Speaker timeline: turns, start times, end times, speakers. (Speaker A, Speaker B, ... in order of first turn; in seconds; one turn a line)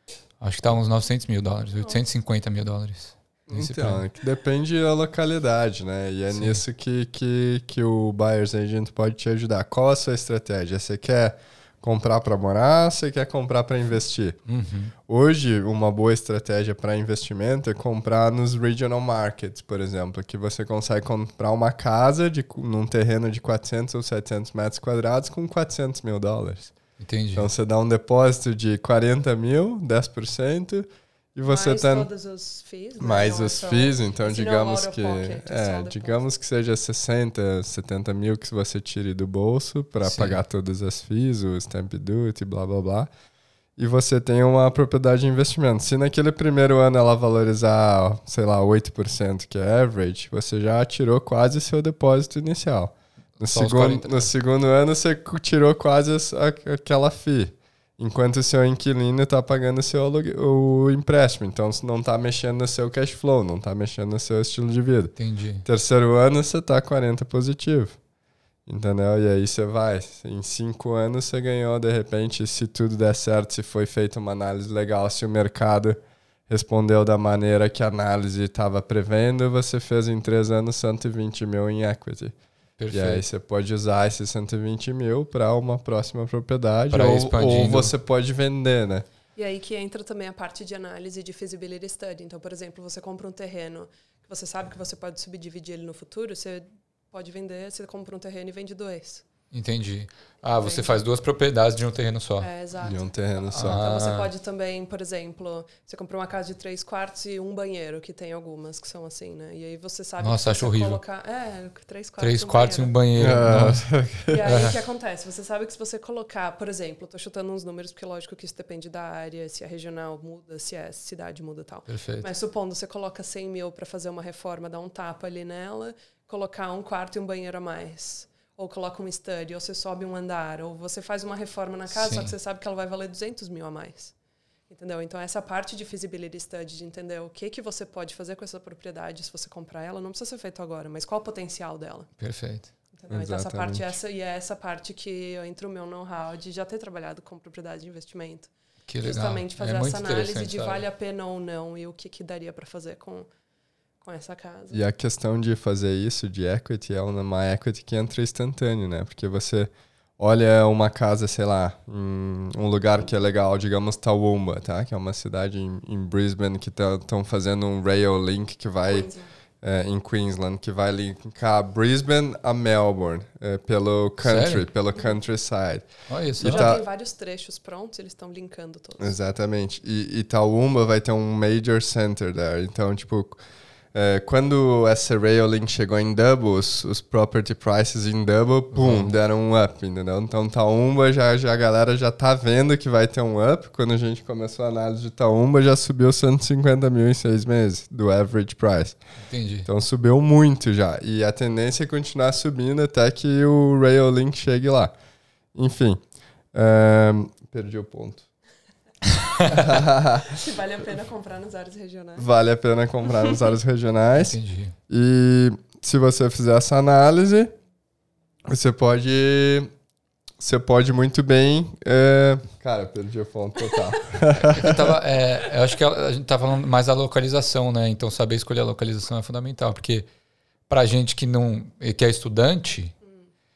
Speaker A: 0.4-4.0
Speaker B: 3.5-14.4
Speaker A: 6.3-6.6
Speaker A: 14.5-14.9
Speaker B: 15.1-26.8
Speaker A: 27.0-27.5
Speaker B: 27.4-32.1
Speaker C: 31.5-36.3
Speaker B: 33.0-43.1
Speaker A: 40.0-40.4
Speaker B: 43.8-68.0
Speaker A: 53.4-54.3
Speaker A: 65.2-65.7
Speaker B: 68.7-82.3
Speaker A: 82.8-83.2
Speaker B: 82.9-89.1
Speaker A: 86.9-87.9
Speaker C: 89.4-99.2
Speaker A: 99.5-102.5
Speaker C: 100.5-101.0
Speaker C: 102.4-113.0
Speaker B: 102.8-103.8
Speaker A: 103.5-104.3
Speaker A: 110.2-111.0
Speaker A: 112.2-113.9
Speaker B: 113.2-114.3
Speaker C: 114.3-134.1
Speaker A: 114.4-114.8
Speaker A: 121.9-122.3
Speaker A: 131.9-132.3
Speaker C: 134.7-142.1
Speaker A: 142.2-142.7
Speaker C: 142.9-148.5
Speaker B: 143.1-143.9
Speaker A: 148.9-150.8
Speaker C: 149.0-153.3
Speaker C: 154.0-154.8
Speaker B: 154.7-169.1
Speaker C: 168.9-169.3
Speaker B: 169.6-176.8
Speaker A: 174.2-174.7
Speaker A: 176.1-176.8
Speaker C: 176.4-179.1
Speaker B: 179.0-183.4
Speaker B: 183.9-199.0
Speaker A: 188.7-189.2
Speaker A: 199.2-199.7
Speaker B: 199.7-204.9
Speaker B: 205.5-206.0
Speaker B: 206.5-208.3
Speaker B: 209.5-210.4
Speaker C: 210.3-212.3
Speaker B: 212.2-214.4
Speaker A: 214.1-214.8
Speaker B: 214.9-217.5
Speaker B: 218.5-219.7
Speaker B: 220.4-224.9
Speaker A: 224.5-230.1
Speaker A: 230.7-232.9